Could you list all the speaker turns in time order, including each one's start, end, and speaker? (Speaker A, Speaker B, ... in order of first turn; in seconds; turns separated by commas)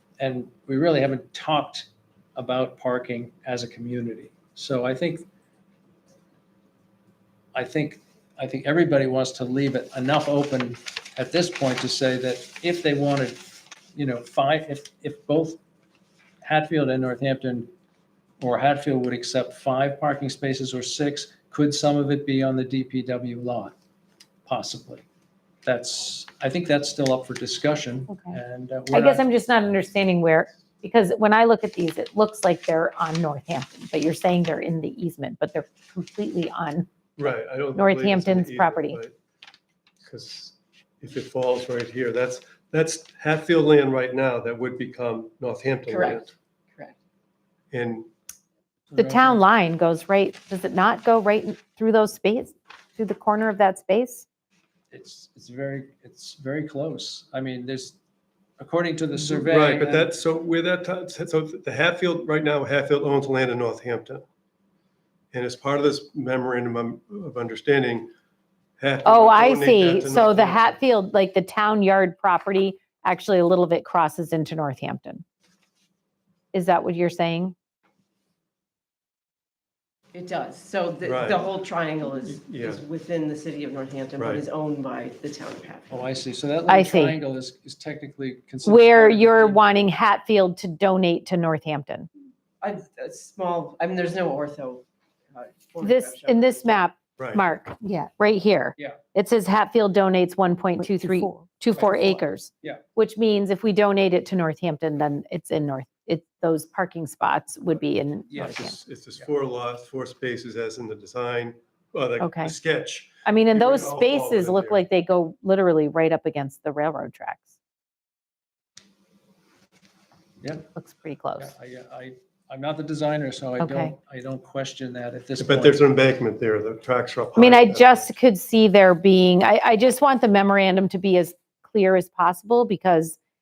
Speaker A: 0.2-5.3, Speaker A: 7.5-15.6, Speaker A: 16.4-17.7, Speaker A: 18.4-23.7, Speaker A: 24.4-25.0, Speaker A: 25.6-29.2, Speaker B: 28.1-28.4, Speaker B: 28.9-36.9, Speaker C: 37.2-39.1, Speaker B: 37.7-39.0, Speaker C: 40.0-46.3, Speaker D: 45.9-47.0, Speaker C: 47.7-48.1, Speaker A: 48.9-49.4, Speaker B: 49.0-54.2, Speaker A: 54.9-58.0, Speaker A: 58.6-60.1, Speaker C: 59.3-64.2, Speaker C: 65.3-68.1, Speaker C: 68.8-70.8, Speaker B: 69.0-75.2, Speaker B: 76.5-77.5, Speaker D: 80.1-86.1, Speaker C: 81.0-81.4, Speaker C: 82.3-82.8, Speaker A: 85.9-89.7, Speaker B: 86.7-87.2, Speaker B: 88.6-92.1, Speaker D: 92.6-96.8, Speaker B: 95.8-108.8, Speaker C: 97.2-97.4, Speaker A: 101.7-102.8, Speaker A: 108.3-108.7, Speaker C: 108.4-114.8, Speaker B: 112.2-112.5, Speaker B: 113.2-117.5, Speaker A: 120.4-120.7, Speaker B: 120.7-121.5, Speaker A: 121.4-125.8, Speaker B: 123.6-123.9, Speaker C: 125.4-128.0, Speaker B: 127.3-133.2